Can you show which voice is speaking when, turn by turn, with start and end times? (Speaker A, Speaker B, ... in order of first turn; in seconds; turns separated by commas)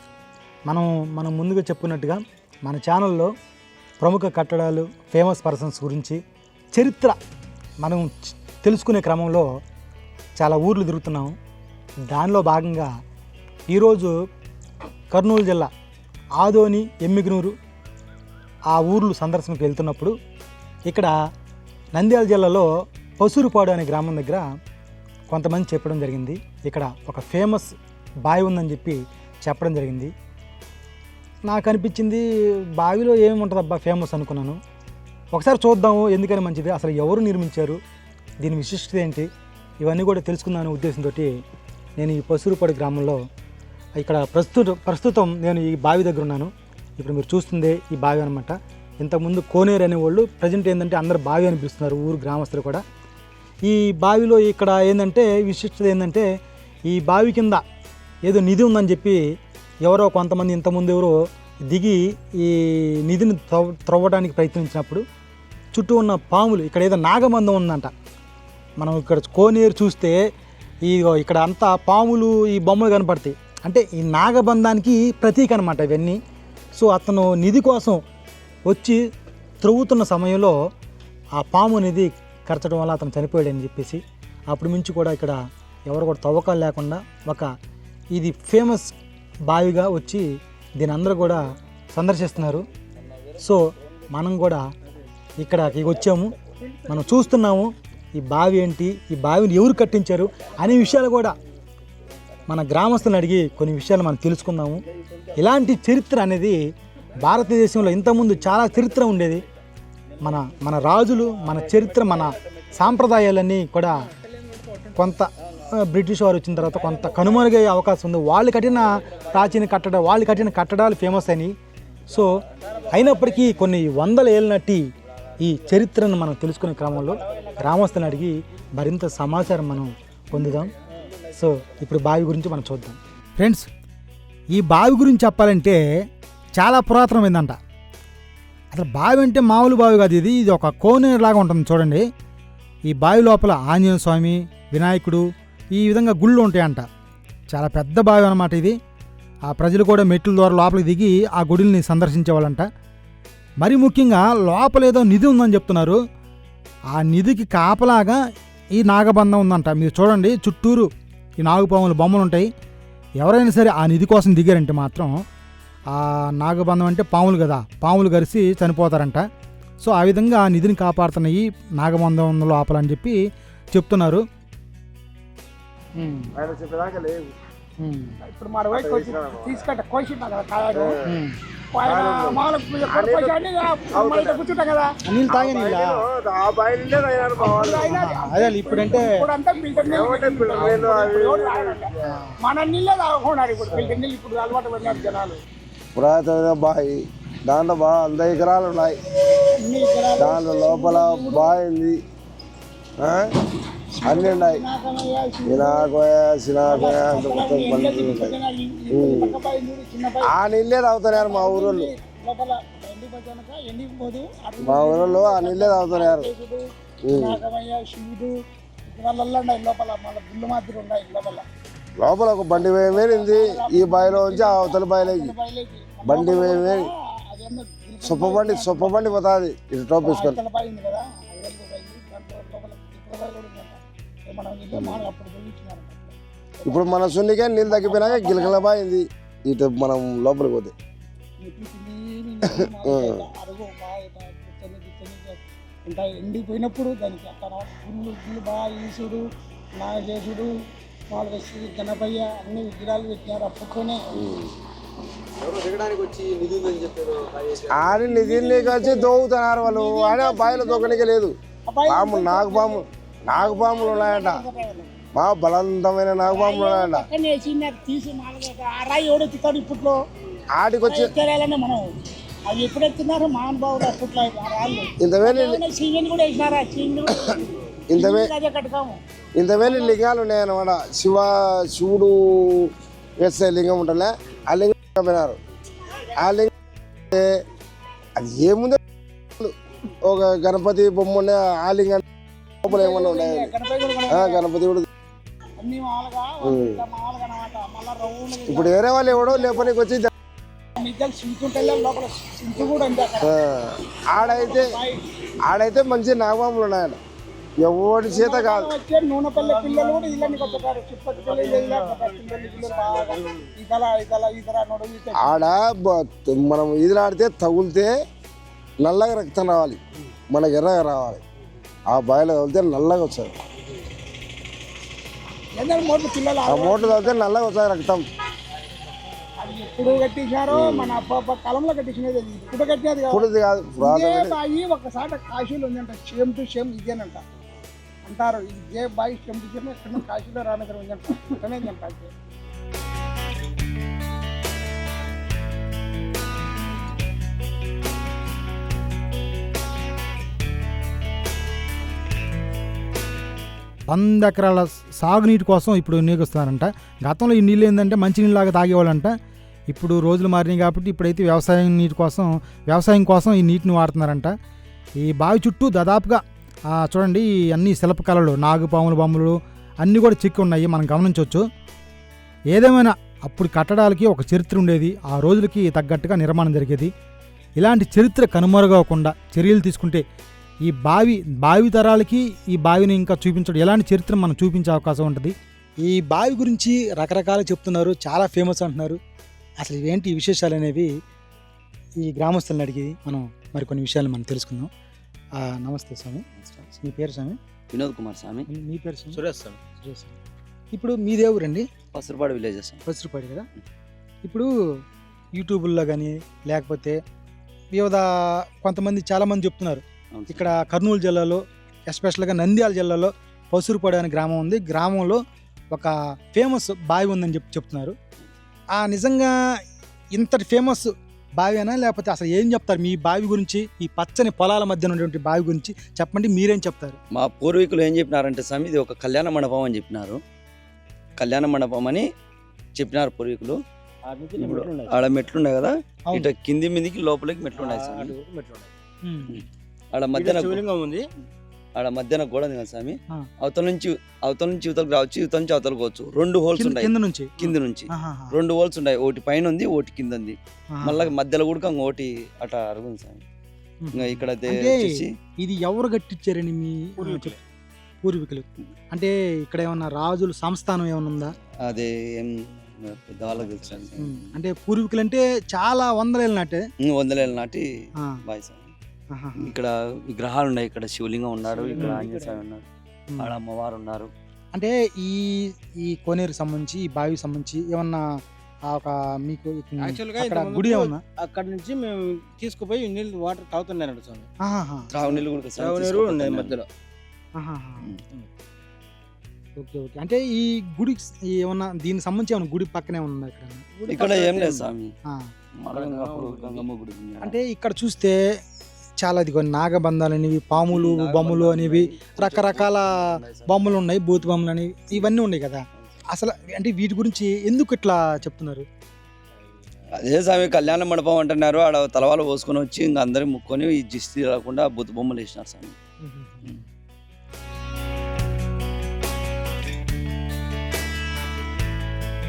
Speaker A: 0.7-3.3, Speaker A: 4.0-6.2, Speaker A: 6.7-7.2, Speaker A: 7.8-9.4, Speaker A: 10.3-11.3, Speaker A: 12.1-12.9, Speaker A: 13.7-14.1, Speaker A: 15.1-15.7, Speaker A: 16.4-17.5, Speaker A: 18.7-20.1, Speaker A: 20.9-21.1, Speaker A: 21.9-22.7, Speaker A: 23.2-24.4, Speaker A: 25.3-30.1, Speaker A: 31.4-34.6, Speaker A: 35.3-37.8, Speaker A: 38.4-39.3, Speaker A: 39.8-41.3, Speaker A: 42.0-43.2, Speaker A: 44.0-52.8, Speaker A: 53.6-56.2, Speaker A: 56.9-57.6, Speaker A: 58.2-59.2, Speaker A: 59.8-61.1, Speaker A: 61.7-65.0, Speaker A: 65.7-67.9, Speaker A: 68.8-70.2, Speaker A: 70.8-76.2, Speaker A: 76.8-78.0, Speaker A: 78.7-79.0, Speaker A: 79.6-80.6, Speaker A: 81.4-87.5, Speaker A: 88.1-89.0, Speaker A: 89.5-90.2, Speaker A: 90.8-92.7, Speaker A: 93.4-94.6, Speaker A: 95.4-96.3, Speaker A: 96.9-101.4, Speaker A: 102.5-104.8, Speaker A: 105.4-106.6, Speaker A: 107.2-109.4, Speaker A: 110.2-114.0, Speaker A: 114.9-121.5, Speaker A: 122.1-124.9, Speaker A: 125.4-130.7, Speaker A: 131.3-133.7, Speaker A: 134.5-135.8, Speaker A: 136.6-137.6, Speaker A: 138.7-142.0, Speaker A: 142.9-146.9, Speaker A: 147.5-148.8, Speaker A: 149.5-152.7, Speaker A: 153.6-156.0, Speaker A: 156.9-158.2, Speaker A: 158.7-162.5, Speaker A: 163.2-165.2, Speaker A: 165.9-169.2, Speaker A: 169.8-173.2, Speaker A: 173.7-174.2, Speaker A: 176.0-176.3, Speaker B: 176.3-177.3, Speaker A: 177.8-178.2, Speaker C: 178.2-181.0, Speaker B: 178.7-179.6, Speaker A: 181.1-181.4, Speaker C: 181.7-184.9, Speaker B: 181.8-184.4, Speaker A: 185.1-186.1, Speaker B: 185.3-187.9, Speaker C: 187.4-191.9, Speaker A: 187.8-189.2, Speaker B: 189.8-191.9, Speaker A: 190.5-190.9, Speaker C: 192.4-195.4, Speaker B: 193.7-194.0, Speaker B: 195.9-198.9, Speaker C: 199.6-201.5, Speaker B: 200.2-202.0, Speaker B: 203.0-203.3, Speaker C: 203.9-205.9, Speaker B: 204.1-204.6, Speaker B: 205.4-208.4, Speaker C: 206.7-210.3, Speaker B: 208.9-209.3, Speaker B: 210.2-211.9, Speaker C: 211.1-218.3, Speaker B: 214.6-216.3, Speaker B: 217.1-217.4, Speaker C: 218.8-221.4, Speaker B: 222.0-225.3, Speaker C: 222.5-229.2, Speaker B: 226.1-226.9, Speaker B: 228.0-230.4, Speaker C: 230.0-236.9, Speaker B: 234.7-235.1, Speaker B: 236.7-240.7, Speaker C: 237.7-238.6, Speaker C: 241.4-249.2, Speaker B: 242.4-243.2, Speaker C: 249.8-250.5, Speaker C: 251.1-254.1, Speaker B: 254.2-254.5, Speaker D: 255.4-257.9, Speaker B: 257.7-261.4, Speaker C: 257.9-261.1, Speaker C: 261.7-262.8, Speaker B: 261.9-264.4, Speaker C: 263.3-264.9, Speaker B: 265.2-267.1, Speaker C: 266.3-270.0, Speaker B: 270.6-271.1, Speaker C: 270.8-271.9, Speaker C: 272.5-279.0, Speaker B: 275.0-275.6, Speaker B: 277.9-278.3, Speaker B: 279.4-282.7, Speaker C: 279.6-279.9, Speaker B: 283.2-285.4, Speaker B: 286.2-286.5, Speaker B: 288.2-288.8, Speaker B: 290.0-292.0, Speaker B: 292.6-293.5, Speaker C: 292.6-294.4, Speaker B: 294.1-294.9, Speaker C: 295.6-299.7, Speaker B: 296.4-296.8, Speaker B: 298.5-300.1, Speaker C: 300.8-303.3, Speaker B: 303.2-304.7, Speaker C: 304.2-305.0, Speaker B: 305.4-307.0, Speaker B: 307.6-308.7, Speaker C: 308.1-315.4, Speaker D: 309.4-310.6, Speaker D: 311.3-313.0, Speaker B: 315.1-317.9, Speaker B: 318.8-319.8, Speaker B: 320.3-321.2, Speaker B: 321.9-323.3, Speaker C: 325.6-327.3, Speaker B: 326.5-328.1, Speaker C: 329.4-333.3, Speaker B: 330.5-331.0, Speaker B: 333.1-334.4, Speaker C: 333.8-337.2, Speaker C: 338.1-342.1, Speaker A: 353.9-359.1, Speaker A: 359.7-364.3, Speaker A: 365.0-371.4, Speaker A: 372.5-376.9, Speaker A: 377.6-380.0, Speaker A: 380.6-389.0, Speaker A: 389.6-390.9, Speaker A: 392.0-394.7, Speaker A: 395.4-397.4, Speaker E: 396.4-396.7, Speaker E: 397.7-398.4, Speaker A: 398.5-399.2, Speaker D: 399.1-399.6, Speaker A: 399.8-400.2, Speaker A: 400.7-401.7, Speaker E: 401.9-402.8, Speaker A: 402.9-403.5, Speaker A: 404.2-404.5, Speaker A: 405.4-407.0, Speaker A: 407.7-417.9, Speaker E: 410.1-410.5, Speaker A: 418.7-419.3, Speaker A: 420.1-427.0, Speaker E: 427.1-430.2, Speaker E: 431.2-432.1, Speaker E: 432.8-433.6, Speaker D: 434.0-435.1, Speaker E: 434.4-438.2, Speaker D: 437.6-438.7, Speaker A: 439.0-439.4, Speaker E: 439.3-440.6, Speaker D: 440.1-441.1, Speaker E: 441.8-453.2, Speaker A: 446.6-448.4, Speaker A: 450.7-451.1, Speaker A: 453.8-457.4, Speaker E: 453.9-455.1, Speaker D: 457.0-457.4, Speaker A: 458.0-461.4, Speaker E: 461.6-464.3, Speaker D: 463.3-463.9, Speaker A: 464.0-466.6, Speaker E: 466.8-467.6, Speaker E: 468.3-468.7, Speaker A: 469.1-469.5, Speaker E: 469.4-472.6, Speaker D: 471.4-472.4, Speaker A: 471.8-472.1, Speaker A: 473.1-473.4, Speaker E: 473.2-474.1, Speaker A: 474.5-478.1, Speaker A: 478.6-481.0, Speaker D: 479.8-484.3, Speaker A: 484.4-484.9, Speaker E: 484.9-486.6, Speaker D: 485.1-486.7, Speaker A: 487.4-487.9, Speaker A: 489.6-493.7, Speaker D: 493.8-494.7, Speaker E: 493.9-494.9, Speaker E: 495.6-497.4, Speaker D: 495.7-496.7, Speaker A: 497.2-498.2, Speaker A: 499.0-508.7, Speaker E: 500.5-503.8, Speaker E: 510.0-515.8, Speaker A: 516.0-516.6